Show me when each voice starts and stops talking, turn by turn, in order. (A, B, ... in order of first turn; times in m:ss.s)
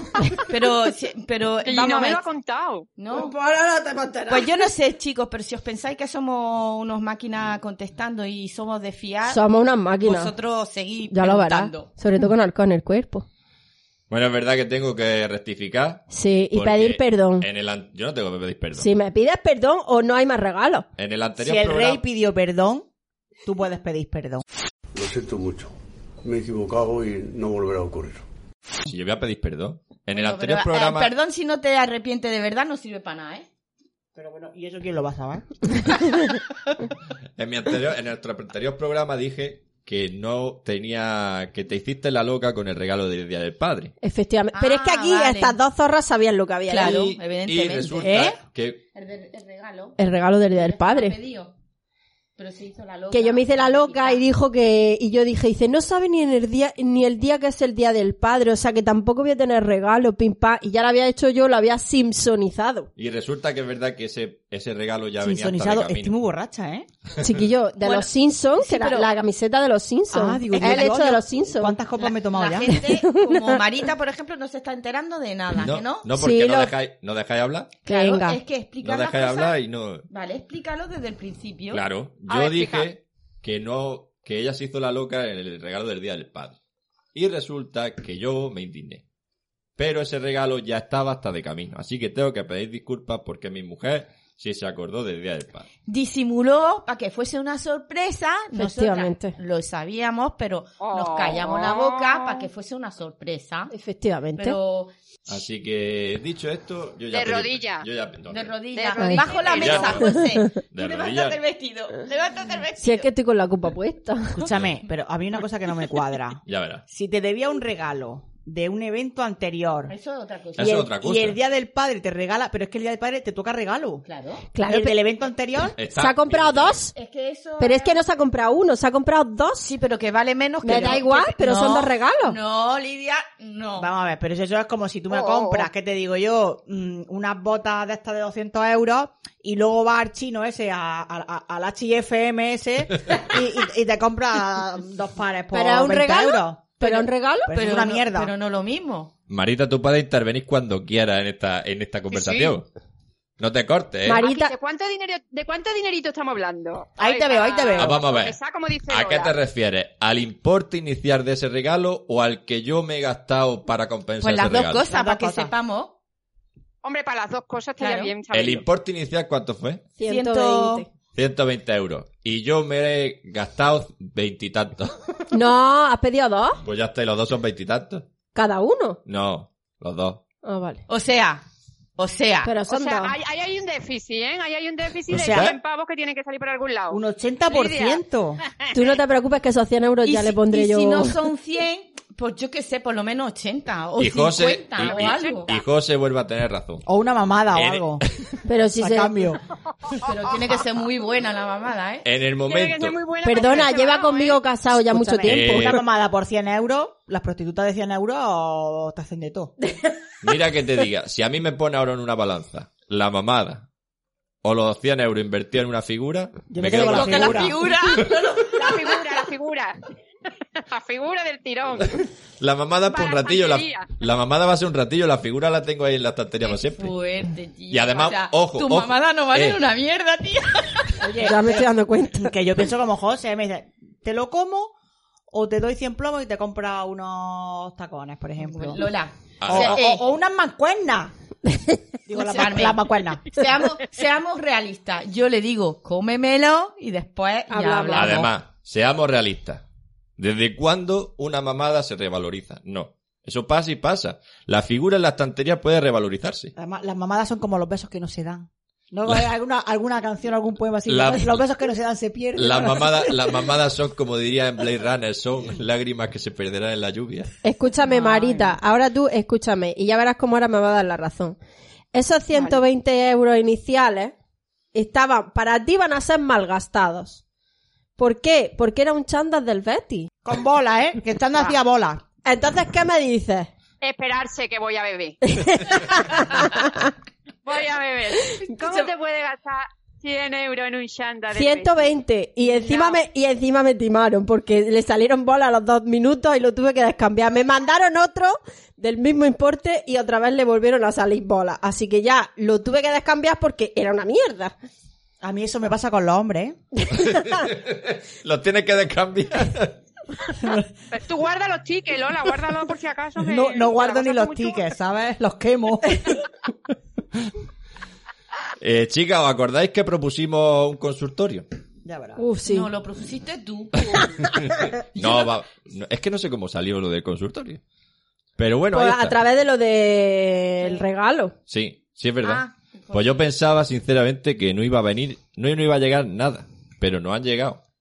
0:00.4-0:02.2 A
0:01.6-0:02.9 B
0:03.0-0:03.4 A
0:03.1-0:04.5 C
0:04.3-0:09.4 A
0:09.3-0:10.3 C
0:10.0-0:11.9 A
0:11.1-0:13.3 C
0:14.1-0:18.9 D
0:16.1-0:17.5 C
0:18.8-0:20.9 C
0:21.0-0:22.0 D
0:21.4-0:22.9 E
0:23.4-0:24.4 E
0:25.0-0:25.7 F
0:26.3-0:28.2 F
0:28.9-0:31.1 D
0:30.1-0:33.5 A
0:34.2-0:35.4 E
0:37.4-0:43.9 D
0:44.0-0:47.0 C
0:44.5-0:45.6 A
0:46.7-0:48.4 A
0:46.8-0:48.8 D
0:48.0-0:48.3 E
0:48.9-0:50.0 A
0:50.0-0:51.2 C
0:50.5-0:51.5 A
0:52.4-0:54.2 A
0:53.1-1:02.9 C
1:03.0-1:06.1 D
1:05.2-1:06.9 E
1:07.2-1:11.8 C
1:07.8-1:09.1 A
1:10.1-1:12.8 E
1:10.6-1:10.9 A
1:12.0-1:16.1 A
1:12.7-1:13.6 C
1:15.5-1:17.8 D
1:16.2-1:16.7 C
1:17.8-1:19.6 A
1:17.9-1:18.4 C
1:18.8-1:20.0 D
1:20.1-1:21.8 A
1:21.7-1:26.6 D
1:22.3-1:22.9 B
1:27.1-1:29.0 D
1:29.8-1:35.7 D
1:35.9-1:43.7 A
1:38.5-1:39.4 C
1:40.8-1:42.5 B
1:43.7-1:44.6 C
1:44.4-1:44.9 A
1:45.3-1:48.6 D
1:47.1-1:47.9 B
1:48.3-1:53.1 A
1:48.7-1:50.1 B
1:49.0-1:49.2 C
1:49.4-1:51.4 D
1:50.1-1:50.5 C
1:52.8-1:54.4 C
1:54.4-2:00.0 E
1:54.5-1:54.8 D
1:56.5-1:56.8 D
1:59.9-2:00.9 A
2:00.6-2:01.4 D
2:00.6-2:04.0 E
2:04.0-2:04.4 A
2:04.5-2:05.0 C
2:04.6-2:05.8 E
2:05.8-2:06.8 D
2:06.0-2:06.9 C
2:06.9-2:08.0 A
2:07.6-2:09.7 C
2:09.6-2:13.9 A
2:10.6-2:12.4 C
2:13.8-2:26.8 E
2:15.1-2:15.7 B
2:25.5-2:27.5 C
2:26.8-2:29.1 A
2:27.5-2:28.3 E
2:29.3-2:32.7 D
2:32.1-2:32.6 B
2:33.4-2:34.2 D
2:34.0-2:34.5 C
2:34.2-2:39.3 B
2:37.0-2:38.0 E
2:37.8-2:38.4 D
2:38.9-2:44.8 D
2:44.2-2:46.0 A
2:44.9-2:45.5 E
2:46.8-2:48.7 B
2:47.8-2:48.1 A
2:48.3-2:49.9 D
2:50.0-2:50.9 C
2:50.0-2:50.9 A
2:51.1-2:55.0 D
2:55.3-2:56.6 C
2:56.6-2:58.1 D
2:58.3-2:59.0 C
2:59.1-3:00.2 D
3:00.4-3:00.8 C
3:00.9-3:01.4 A
3:02.0-3:02.5 A
3:02.4-3:03.2 C
3:02.7-3:08.0 B
3:05.1-3:05.5 E
3:05.1-3:05.6 D
3:06.9-3:08.4 E
3:08.7-3:11.2 C
3:10.0-3:15.6 A
3:14.0-3:16.8 D
3:14.8-3:15.4 B
3:16.9-3:18.0 E
3:17.5-3:18.4 D
3:18.5-3:19.1 C
3:18.8-3:19.4 E
3:20.0-3:22.0 A
3:22.0-3:23.0 D
3:22.5-3:24.4 B
3:23.2-3:25.8 C
3:24.9-3:29.5 E
3:25.3-3:25.8 D
3:30.2-3:33.7 D
3:34.4-3:38.1 D
3:36.5-3:37.6 E
3:36.7-3:39.1 A
3:38.5-3:39.8 B
3:40.5-3:42.0 B
3:42.4-3:47.0 D
3:42.9-3:43.9 B
3:46.4-3:51.2 A
3:47.7-3:49.6 D
3:51.0-3:54.7 E
3:51.2-3:52.3 C
3:55.3-3:58.9 E
3:58.4-4:00.0 A
3:59.4-3:59.8 D
3:59.5-4:01.1 E
4:01.5-4:01.8 C
4:02.1-4:03.3 E
4:02.1-4:08.3 A
4:07.5-4:08.3 C
4:08.0-4:09.6 D
4:10.2-4:16.5 D
4:16.6-4:23.4 E
4:20.9-4:21.4 D
4:22.4-4:27.3 D
4:27.4-4:31.4 C
4:28.0-4:28.4 E
4:31.9-4:34.1 C
4:34.7-4:37.2 C
4:38.0-4:40.1 C
4:40.2-4:42.0 E
4:42.2-4:43.5 C
4:43.8-4:45.2 B
4:45.3-4:46.8 C
4:47.4-4:53.0 B
4:51.3-5:04.5 C
5:05.2-5:06.6 E
5:06.9-5:09.8 D
5:10.9-5:14.6 B
5:13.2-5:16.2 E
5:18.6-5:21.5 D
5:21.8-5:22.2 E
5:22.2-5:22.7 C
5:22.4-5:24.1 A
5:23.9-5:27.6 D
5:25.0-5:25.3 A
5:28.4-5:29.2 D
5:28.7-5:31.4 C
5:31.5-5:37.6 D
5:32.2-5:33.2 A